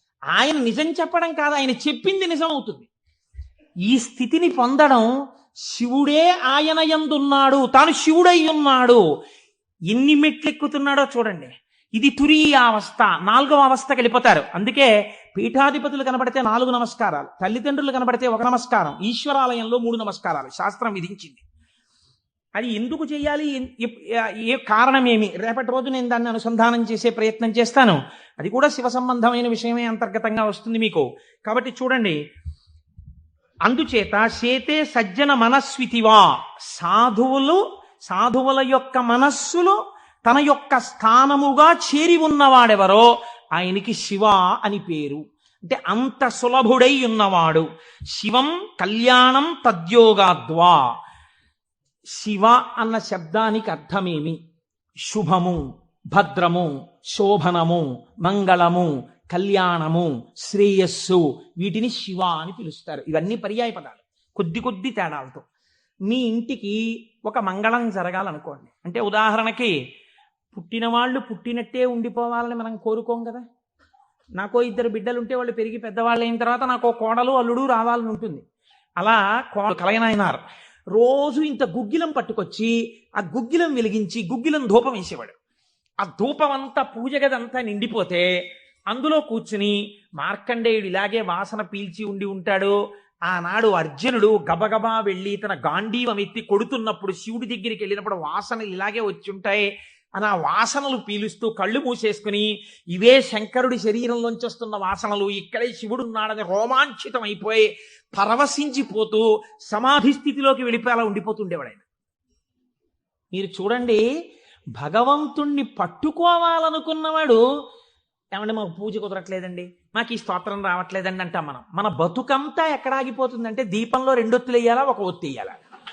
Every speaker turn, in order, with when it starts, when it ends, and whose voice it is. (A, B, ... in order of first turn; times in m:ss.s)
0:00.3-0:02.9 A
0:03.9-0:05.1 A
0:05.7-0:09.0 A
0:09.9-0:21.4 A
0:22.6-0:32.2 A
0:33.6-0:50.9 A
0:52.2-0:54.4 A
0:55.1-0:55.6 A
0:56.1-1:05.4 A
1:06.1-1:09.7 A
1:10.5-1:13.4 A
1:14.4-1:18.4 A
1:19.0-1:20.4 A
1:20.9-1:25.4 A
1:26.0-1:28.3 A
1:28.9-1:32.7 A
1:33.3-1:51.8 A
1:53.3-1:54.0 A
1:54.8-1:57.4 A
1:58.3-2:05.6 A